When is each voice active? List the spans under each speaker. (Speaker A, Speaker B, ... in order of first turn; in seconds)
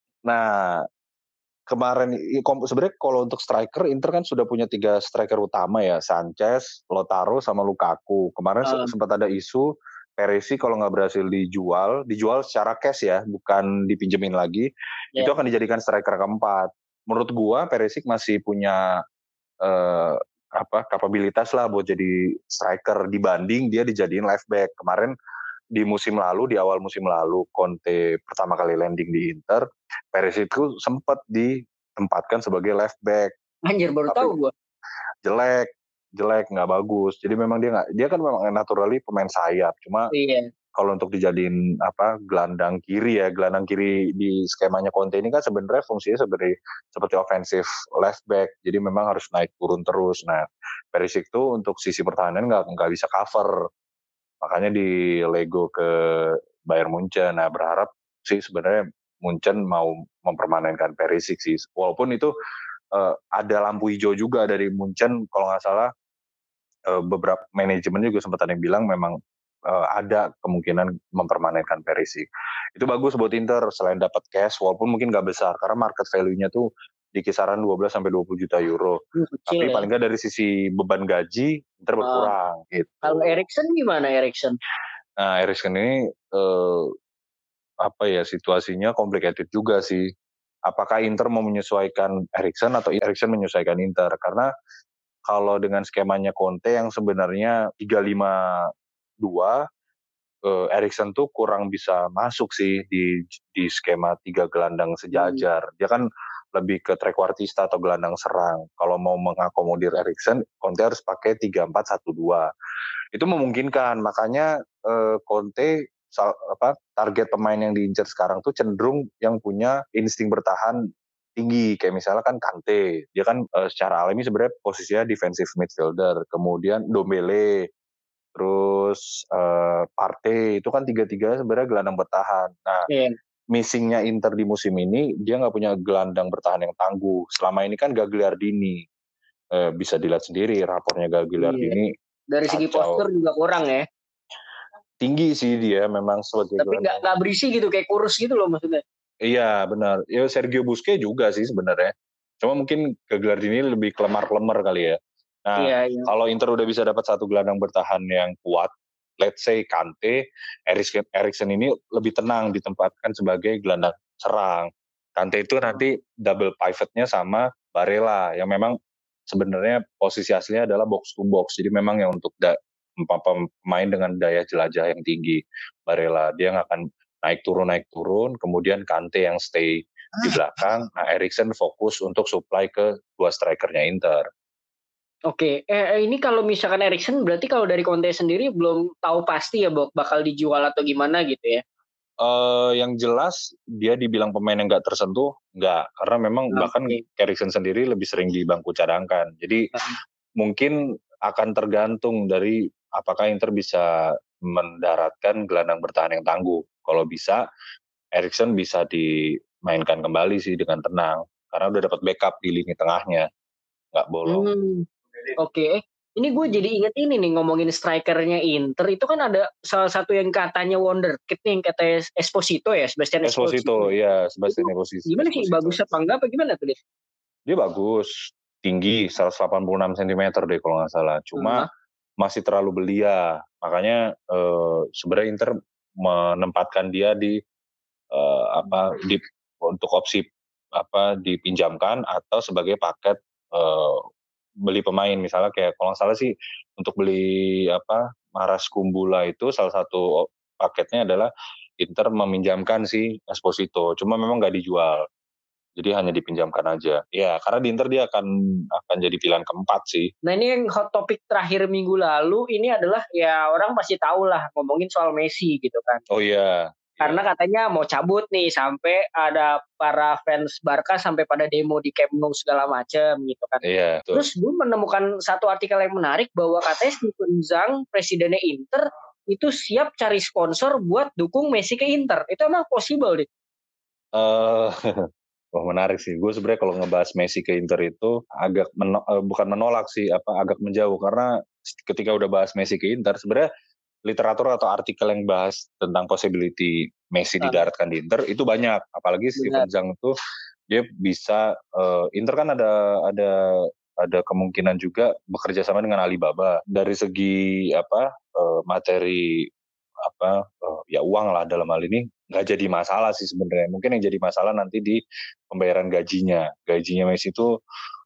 Speaker A: 0.3-0.8, 1.7-9.7, 10.2-14.7, 15.2-18.8, 19.6-25.1, 25.7-33.3, 34.1-34.4, 35.2-40.1, 40.8-53.5, 54.4-62.3, 62.9-65.9, 66.9-69.2, 69.7-79.0, 79.5-83.4, 85.2-86.9, 87.8-90.0, 90.7-94.5, 95.3-98.7, 99.2-99.6, 100.5-106.0, 106.5-112.5, 113.1-120.8, 121.4-127.6, 128.3-132.9, 133.5-138.8, 139.5-141.9, 142.5-143.0, 145.0-147.0, 149.2-168.8, 169.3-184.2, 192.2-199.7, 200.4-200.8, 201.3-207.4, 208.2-213.2, 213.9-214.5, 223.2-225.8, 227.5-231.7, 232.2-237.4, 238.1-244.0, 244.7-251.3, 251.8-255.0, 255.8-260.1, 266.1-267.2, 273.6-274.3, 284.1-284.8, 285.6-293.5, 294.1-300.1, 300.7-309.4, 310.0-315.0, 315.5-317.5
Speaker B: 8.6-8.9, 33.6-34.5, 40.1-40.5, 79.2-79.9, 82.0-82.3, 83.0-84.5, 105.1-105.4, 132.9-133.1, 141.4-141.8, 142.3-143.8, 146.6-148.8, 155.6-156.1, 185.3-191.6, 196.5-197.0, 214.2-214.8, 215.4-223.9, 224.5-226.8, 231.3-231.7, 260.2-266.0, 267.0-273.6, 274.1-283.3, 299.4-299.7